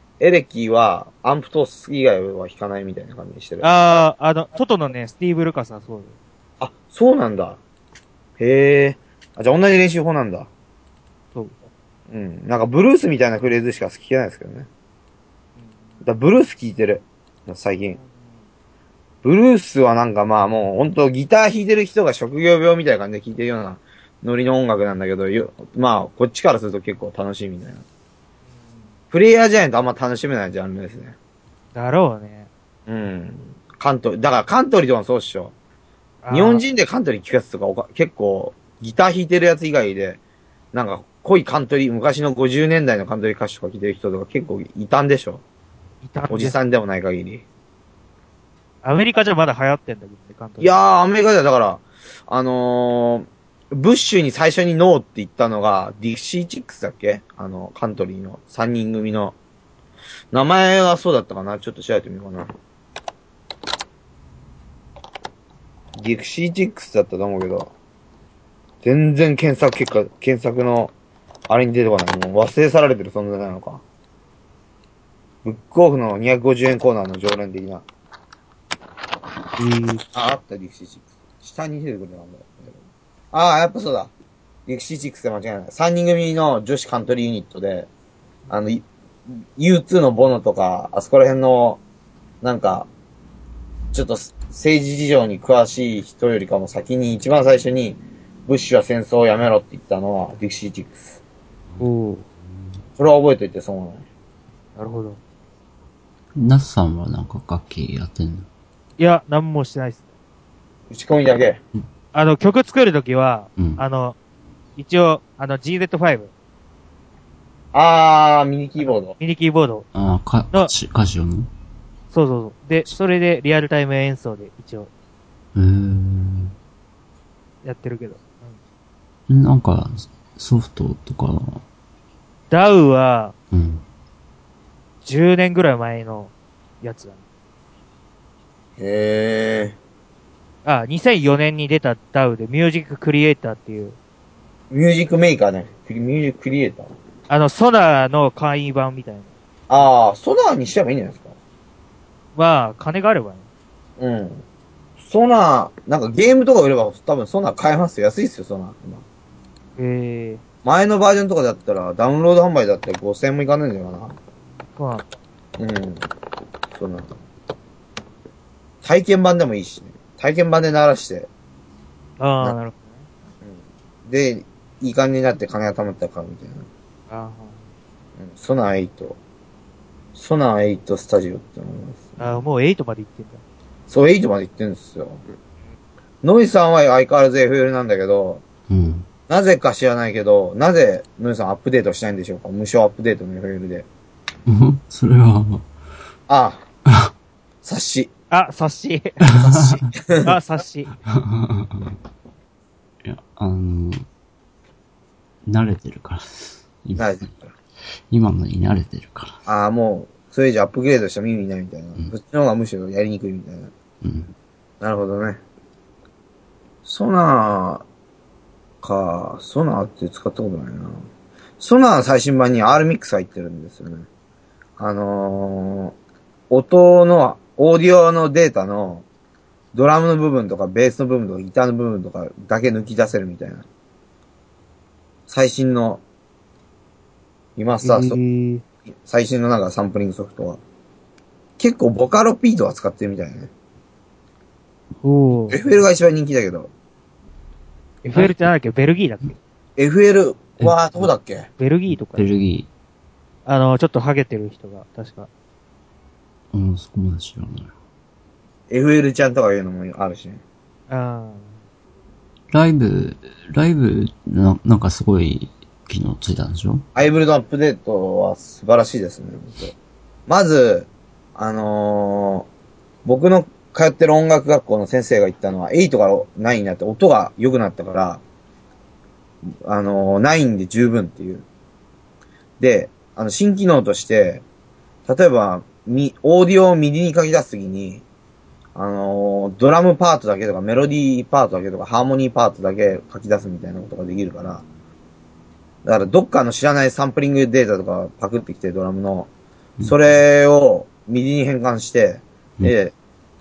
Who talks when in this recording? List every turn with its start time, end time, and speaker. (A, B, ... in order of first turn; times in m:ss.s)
0:00.2-0:03.7 A
0:03.6-0:06.2 B
0:06.6-0:07.6 A
0:08.4-0:10.5 A
0:12.1-0:14.7 A
0:16.0-0:18.0 A
0:19.2-0:27.8 A
0:29.1-0:31.1 A
0:31.7-0:32.5 B
0:32.9-0:35.5 A
0:36.2-0:36.6 B
0:36.3-0:40.2 A
0:40.7-0:45.4 A
0:46.0-0:46.6 B
0:46.3-0:47.4 A
0:48.8-0:50.8 B
0:50.6-0:59.4 A
1:00.3-1:02.5 A
1:05.9-1:07.7 A
1:08.8-1:10.9 A
1:11.5-1:13.8 A
1:15.4-1:17.8 A
1:19.6-1:20.0 B
1:20.1-1:22.8 A
1:23.3-1:24.1 A
1:24.7-1:27.9 A
1:28.5-1:31.8 A
1:32.4-1:32.9 A
1:33.9-1:41.2 A
1:41.8-1:42.2 B
1:43.0-1:44.0 A
1:44.8-1:45.2 B
1:46.4-1:48.5 C
1:49.0-1:50.1 B
1:50.9-1:51.6 A
1:52.1-1:54.2 B
1:54.8-1:56.3 B
1:57.7-1:59.2 A
1:58.8-1:59.9 B
1:59.9-2:01.5 C
2:02.1-2:04.9 B
2:05.6-2:06.6 C
2:07.6-2:08.6 B
2:09.3-2:11.6 C
2:12.5-2:13.4 B
2:13.5-2:13.8 C
2:15.0-2:17.2 B
2:18.8-2:19.8 A
2:20.6-2:24.0 B
2:24.7-2:26.9 A
2:27.3-2:29.3 B
2:29.7-2:31.3 A
2:32.4-2:33.4 B
2:34.0-2:34.4 A
2:35.0-2:39.0 A
2:39.8-2:40.4 B
2:40.6-2:44.2 A
2:44.8-2:45.0 B
2:45.6-2:46.1 A
2:46.7-2:47.1 A
2:48.8-2:51.3 A
2:52.2-2:52.9 B
2:53.4-2:56.7 A
2:57.1-2:57.6 B
2:58.2-2:59.2 A
3:00.1-3:02.2 A
3:02.2-3:03.4 B
3:03.9-3:05.2 A
3:06.2-3:08.4 A
3:08.7-3:09.1 C
3:09.3-3:13.9 A
3:14.5-3:15.6 C
3:16.3-3:16.6 A
3:17.6-3:18.1 A
3:18.3-3:19.2 B
3:19.3-3:19.8 C
3:19.3-3:20.4 A
3:20.2-3:20.9 B
3:21.1-3:22.0 C
3:23.0-3:24.0 C
3:25.4-3:27.3 C
3:27.0-3:27.5 A
3:28.1-3:29.4 C
3:29.4-3:33.7 A
3:34.0-3:34.3 C
3:34.8-3:35.4 A
3:36.8-3:37.8 A
3:38.8-3:41.0 A
3:41.6-3:44.1 A
3:44.8-3:45.9 A
3:46.5-3:49.0 A
3:49.7-3:53.6 A
3:55.3-3:56.0 A
3:57.6-3:58.2 A
3:57.8-3:58.6 B
3:59.0-4:00.6 A
4:01.6-4:03.5 A
4:05.0-4:05.6 B
4:05.5-4:06.7 A
4:08.0-4:09.4 B
4:09.8-4:11.5 A
4:10.6-4:11.1 C
4:11.6-4:12.3 B
4:11.9-4:12.7 C
4:13.4-4:15.3 B
4:16.5-4:17.7 C
4:18.7-4:20.4 A
4:20.9-4:21.6 B
4:22.5-4:26.8 C
4:26.9-4:29.7 A
4:30.3-4:32.5 A
4:33.0-4:38.2 A
4:39.6-4:41.4 A
4:42.6-4:44.4 A
4:45.1-4:48.0 A
4:48.7-4:54.6 A
4:55.8-4:59.3 A
4:59.8-5:02.9 A